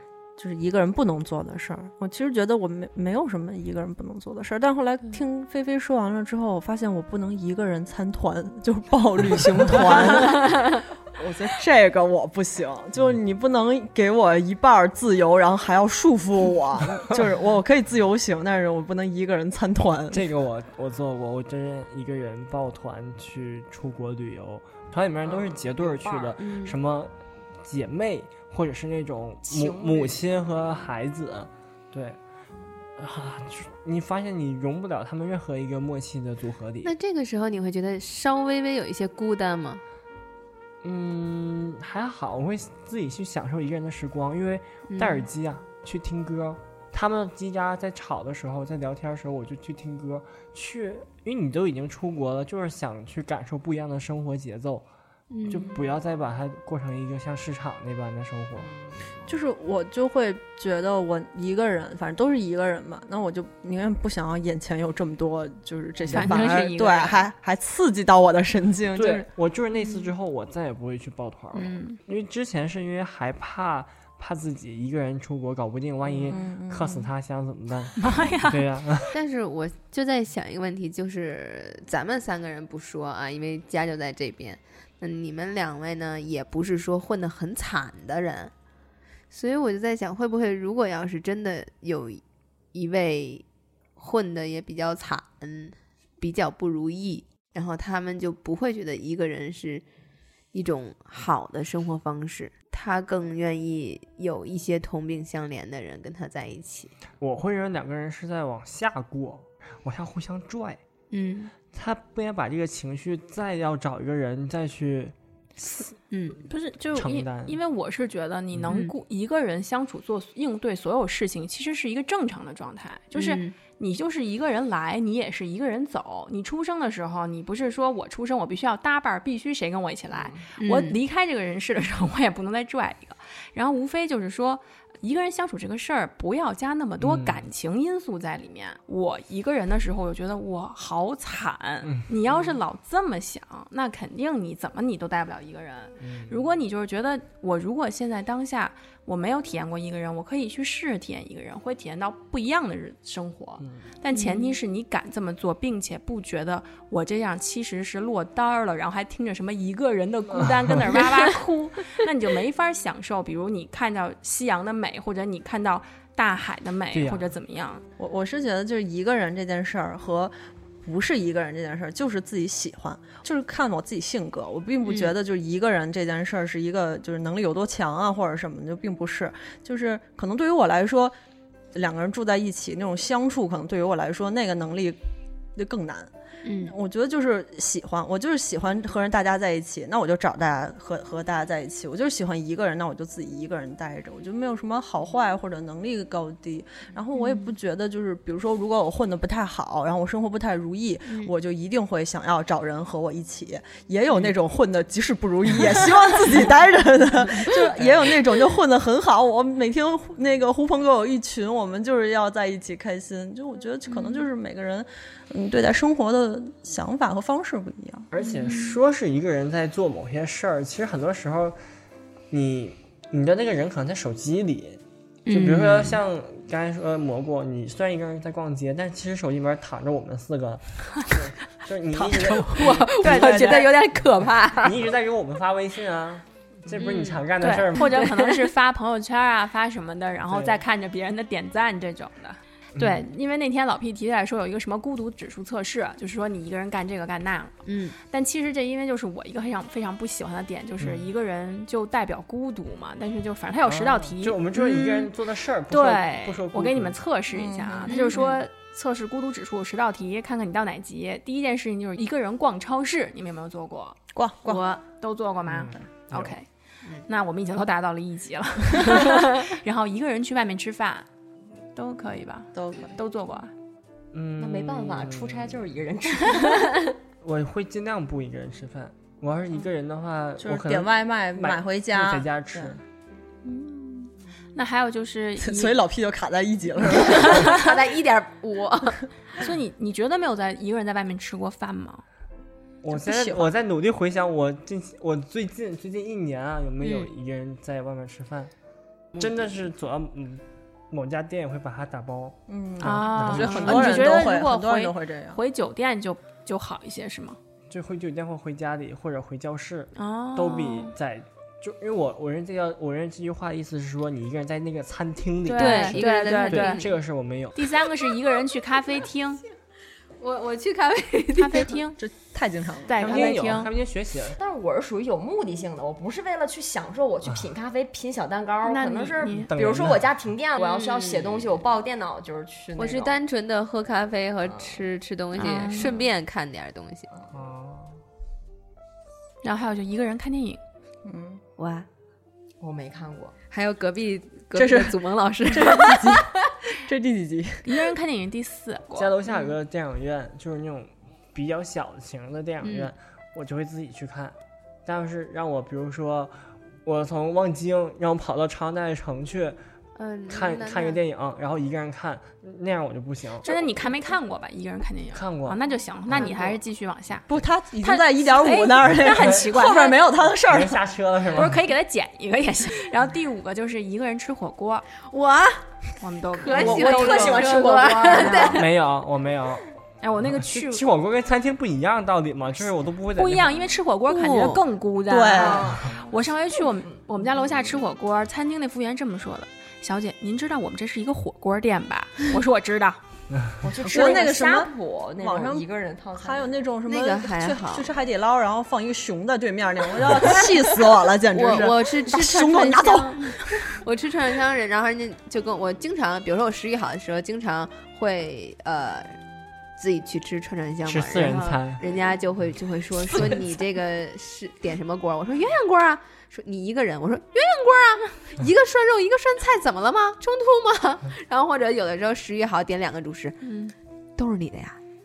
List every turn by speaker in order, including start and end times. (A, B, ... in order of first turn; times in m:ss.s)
0:00.4-0:20.2 A
0:20.1-0:32.2 B
0:26.0-0:26.3 C
0:26.4-0:26.8 D
0:29.4-0:30.2 C
0:33.0-0:36.9 B
0:36.8-0:39.8 D
0:40.8-0:54.9 B
0:44.9-0:45.3 D
0:55.3-0:55.8 D
0:55.5-0:58.7 B
0:58.6-0:59.0 C
0:59.3-1:09.3 A
1:06.1-1:07.3 E
1:08.9-1:19.1 B
1:11.5-1:12.0 E
1:16.3-1:17.1 A
1:18.0-1:18.6 E
1:19.1-1:28.5 D
1:29.3-1:32.2 D
1:32.7-1:33.4 D
1:34.0-1:39.8 D
1:40.5-1:46.9 D
1:47.2-1:50.8 B
1:51.1-1:51.6 D
1:51.7-1:55.9 B
1:56.1-1:56.4 D
1:56.5-2:47.8 E
1:56.9-1:57.6 B
1:58.7-1:58.9 D
2:03.2-2:03.6 D
2:10.1-2:10.4 C
2:10.6-2:11.0 D
2:17.0-2:17.4 B
2:21.8-2:22.5 B
2:26.0-2:26.4 B
2:34.1-2:34.6 D
2:40.3-2:41.0 B
2:46.9-2:47.3 B
2:48.0-3:01.2 A
2:54.8-2:55.1 D
3:01.8-3:05.0 A
3:05.6-3:38.1 A
3:06.4-3:06.8 D
3:17.2-3:17.5 D
3:21.1-3:21.3 D
3:38.1-3:41.6 B
3:42.3-3:53.6 B
3:45.3-3:46.0 D
3:52.0-3:54.8 D
3:52.7-3:53.7 E
3:54.6-3:58.0 B
3:56.8-3:58.5 D
3:57.4-4:15.1 E
4:00.3-4:00.6 B
4:02.8-4:03.0 B
4:07.7-4:08.0 D
4:10.8-4:11.0 B
4:13.6-4:17.0 B
4:15.7-4:24.0 E
4:17.3-4:18.4 A
4:17.9-4:18.3 D
4:24.2-4:24.6 A
4:24.5-4:24.8 D
4:24.9-4:26.5 E
4:25.5-4:26.3 B
4:27.1-4:31.1 E
4:31.8-4:33.5 E
4:32.6-4:33.0 A
4:34.1-4:35.6 B
4:34.4-4:36.6 C
4:37.2-4:42.8 B
4:40.4-4:42.8 A
4:43.4-4:45.8 E
4:45.4-4:47.6 A
4:47.1-4:49.0 D
4:49.4-4:52.0 E
4:52.8-4:58.5 B
4:52.9-4:53.5 A
4:59.2-5:04.1 B
5:02.5-5:05.4 A
5:02.8-5:07.4 E
5:07.7-5:17.7 B
5:10.0-5:11.0 E
5:15.5-5:16.9 E
5:15.6-5:16.9 D
5:17.6-5:19.4 E
5:20.2-5:21.8 D
5:21.4-5:22.0 E
5:22.0-5:23.4 A
5:22.9-5:23.7 E
5:23.0-5:24.4 B
5:24.4-5:33.2 C
5:28.6-5:29.5 E
5:29.5-5:30.0 B
5:30.6-5:31.4 D
5:32.8-5:37.1 D
5:34.5-5:34.8 C
5:35.4-5:36.0 E
5:37.3-5:37.9 B
5:39.4-5:40.6 E
5:41.0-5:41.4 A
5:41.6-5:41.9 D
5:42.6-5:43.4 C
5:43.5-5:46.2 D
5:44.6-5:47.9 A
5:47.6-5:49.1 E
5:48.9-5:59.6 B
5:52.6-5:52.9 D
6:00.0-6:01.0 D
6:00.3-6:03.6 B
6:03.4-6:07.3 E
6:05.1-6:06.3 B
6:07.3-6:10.8 A
6:07.8-6:10.1 E
6:09.1-6:09.4 B
6:10.4-6:11.6 B
6:11.3-6:14.9 E
6:15.0-6:15.6 D
6:16.0-6:18.6 E
6:16.4-6:18.7 D
6:16.4-6:18.6 C
6:16.8-6:17.3 A
6:18.5-6:19.7 B
6:20.0-6:20.8 E
6:20.2-6:23.6 B
6:23.2-6:33.0 E
6:24.1-6:24.6 D
6:25.1-6:25.8 A
6:25.4-6:26.0 C
6:33.6-6:36.6 C
6:33.8-6:35.6 A
6:36.2-6:43.6 A
6:36.9-6:37.9 D
6:41.3-6:49.2 D
6:49.8-7:03.5 D
6:50.8-6:51.8 B
7:03.4-7:03.7 E
7:04.2-7:04.8 D